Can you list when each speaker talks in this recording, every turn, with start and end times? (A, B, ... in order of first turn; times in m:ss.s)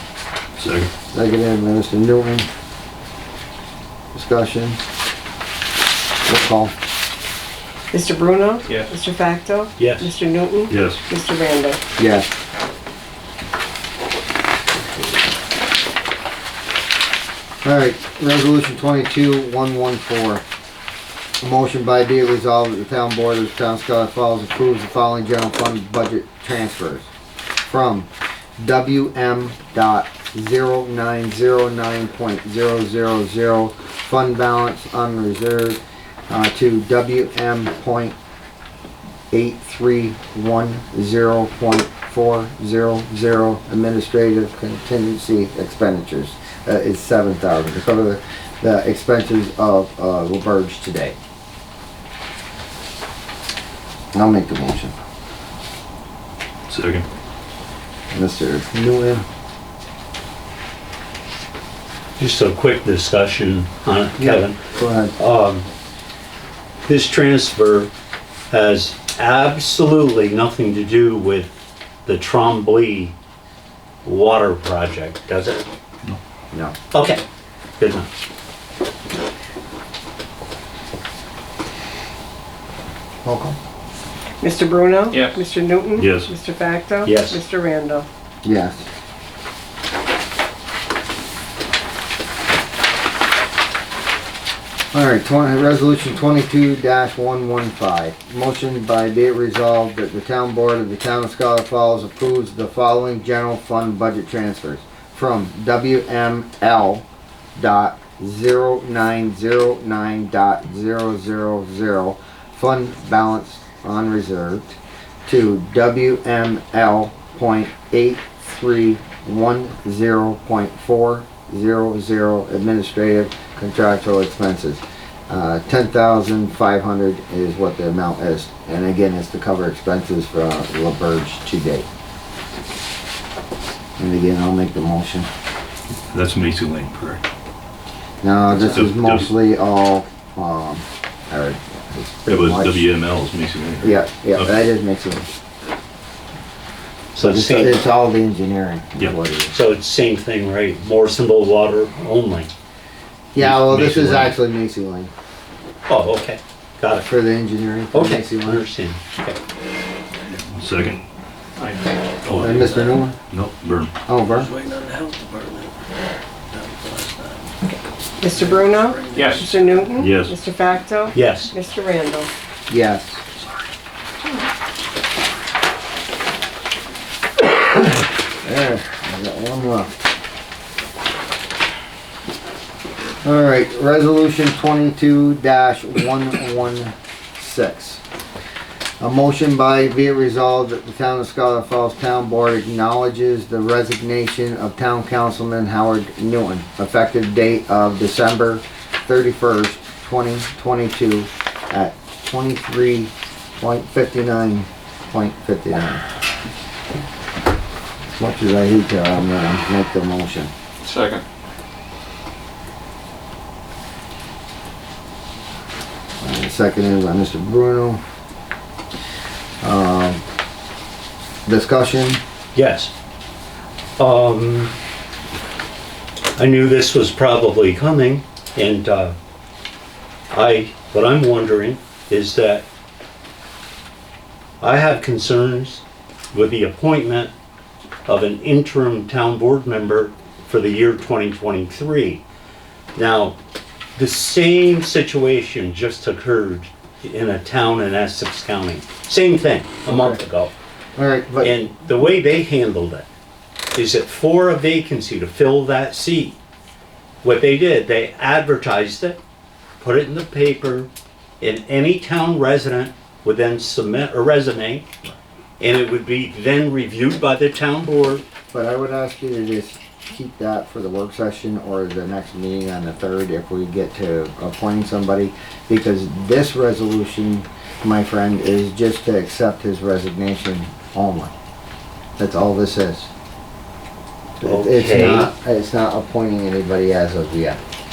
0:00.6-0:00.9 A
0:01.1-0:02.5 B
0:04.1-0:04.8 B
0:06.2-0:06.7 B
0:07.9-0:11.8 C
0:09.8-0:10.1 D
0:10.7-0:11.0 A
0:12.0-0:12.3 B
0:17.6-0:20.4 B
0:21.4-0:27.1 B
0:27.6-0:28.1 B
0:28.6-0:38.2 B
0:39.3-0:51.2 B
0:54.1-0:54.9 B
0:56.7-0:57.0 A
0:58.1-0:59.2 B
1:02.2-1:04.6 D
1:04.2-1:05.2 B
1:05.2-1:05.7 D
1:06.8-1:07.9 D
1:08.5-1:11.5 D
1:12.0-1:13.1 D
1:14.0-1:15.6 D
1:16.9-1:17.2 D
1:17.8-1:18.1 D
1:23.2-1:23.6 B
1:24.4-1:28.1 C
1:25.1-1:25.5 E
1:26.0-1:26.3 A
1:27.0-1:27.4 D
1:28.4-1:28.8 B
1:34.9-1:47.0 B
1:47.6-2:11.9 B
2:14.0-2:15.3 B
2:16.1-2:17.2 A
2:18.2-2:22.9 B
2:18.5-2:19.3 A
2:22.3-2:24.5 A
2:23.8-2:25.3 B
2:27.1-2:27.9 D
2:27.2-2:29.5 B
2:29.5-2:32.5 D
2:33.3-2:35.1 B
2:33.4-2:34.3 A
2:35.9-2:37.1 D
2:37.0-2:38.6 B
2:37.9-2:39.4 D
2:40.3-2:41.0 A
2:41.6-2:42.8 E
2:42.3-2:42.8 A
2:42.3-2:43.2 B
2:43.3-2:43.9 A
2:44.1-2:44.5 B
2:44.4-2:45.6 F
2:48.2-2:52.3 C
2:48.4-2:49.5 F
2:49.1-2:49.6 E
2:50.0-2:50.3 A
2:51.1-2:51.5 D
2:52.7-2:53.2 B
2:57.7-2:59.9 B
3:03.2-3:08.0 B
3:09.0-3:26.0 B
3:28.1-3:30.5 B
3:30.8-3:31.2 E
3:36.2-3:38.0 B
3:39.6-3:40.2 B
3:41.4-3:42.2 B
3:42.5-3:42.9 D
3:44.0-3:44.7 D
3:46.4-3:49.1 D
3:50.3-3:52.6 D
3:54.6-3:57.3 D
3:58.1-4:02.2 D
4:02.9-4:03.4 D
4:04.0-4:10.5 D
4:09.9-4:10.2 B
4:11.0-4:11.6 B
4:11.4-4:13.1 D
4:13.7-4:16.4 D
4:17.2-4:19.2 D
4:19.8-4:20.9 D
4:21.4-4:24.8 D
4:25.6-4:28.2 D
4:28.5-4:41.3 B
4:42.2-4:43.1 B
4:44.4-4:45.3 D
4:44.4-4:47.6 B